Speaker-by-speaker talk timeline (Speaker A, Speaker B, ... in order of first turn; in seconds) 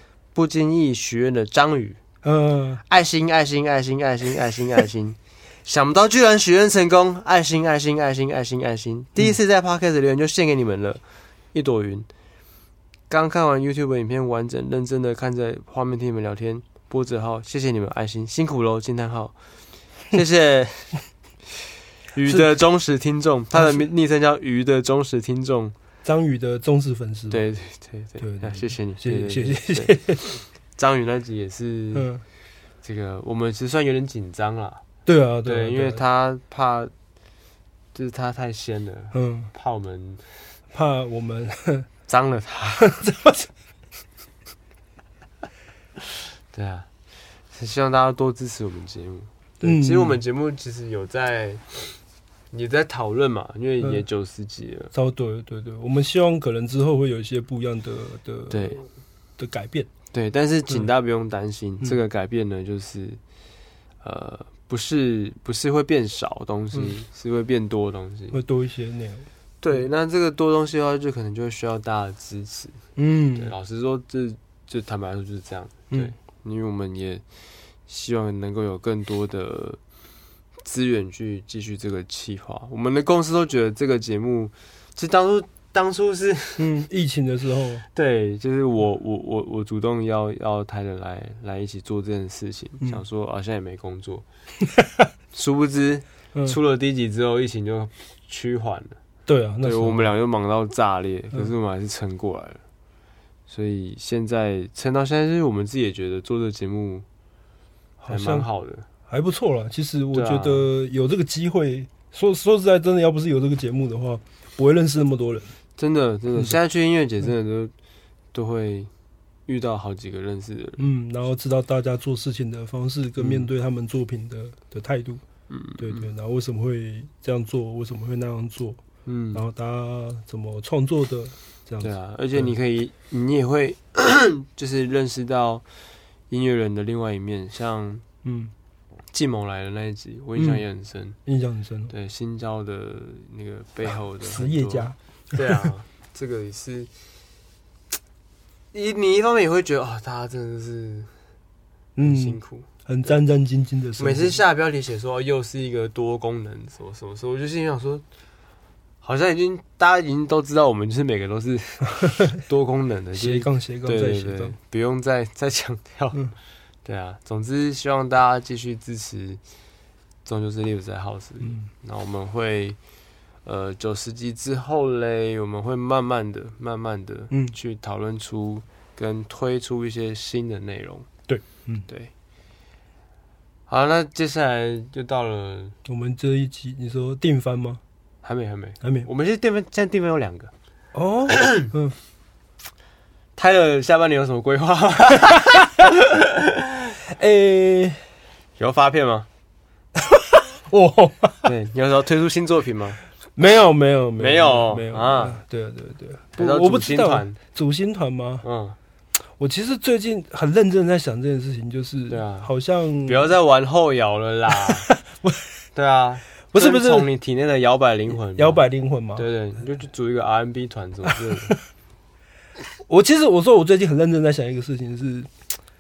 Speaker A: 0.3-2.0, 2.9-11.0, 11.5-12.1, 13.1-19.4, 20.1-21.0, 22.1-25.8, 27.3-32.1, 32.8-34.8, 35.5-36.9, 37.9-40.3, 42.1-43.0, 46.5-46.9, 47.5-52.0, 52.5-54.9, 58.5-58.8, 60.1-63.2, 64.0-68.4, 69.6-72.8, 73.4-77.2, 77.9-79.8, 80.6-86.7, 87.9-94.3, 95.3-99.0, 99.6-102.6, 103.5-107.1, 108.1-108.9, 110.1-110.7, 115.8-117.7, 118.3-118.9, 119.5-120.9, 123.2-123.5, 125.5-126.0, 129.1-129.4, 131.8-135.7, 136.3-138.0, 139.1-141.2, 141.9-146.9, 148.7-151.1, 152.0-153.2, 154.0-158.0, 159.0-166.3, 166.8-169.4, 170.2-172.8, 173.4-181.1, 183.7-185.8, 188.2-190.5, 191.3-191.7, 193.4-196.9, 198.6-199.3, 201.4-203.0, 204.2-205.4, 206.4-207.4, 208.4-208.8, 212.1-212.5, 213.1-214.9, 215.8-218.6, 219.2-221.6
Speaker B: 2.2-2.8, 23.6-23.8, 26.1-27.4, 28.2-30.3, 31.9-32.2, 35.1-36.0, 39.1-39.5, 40.7-41.9, 42.8-43.5, 49.6-50.2, 54.9-58.9, 59.4-59.9, 68.3-69.3, 73.0-73.5, 86.6-87.8, 94.8-95.1, 99.3-100.1, 108.0-108.5, 109.1-115.5, 120.8-125.2, 125.8-128.8, 129.3-132.5, 138.2-138.5, 140.4-140.6, 141.3-141.9, 144.2-145.4, 152.0-154.4, 163.2-164.6, 171.4-171.7, 181.3-181.9, 185.9-187.8, 188.8-189.1, 190.9-192.0, 197.1-198.0, 200.0-201.5, 203.4-208.4, 209.4-213.3, 214.9-215.4, 216.5-217.1, 218.4-219.3, 222.8-225.3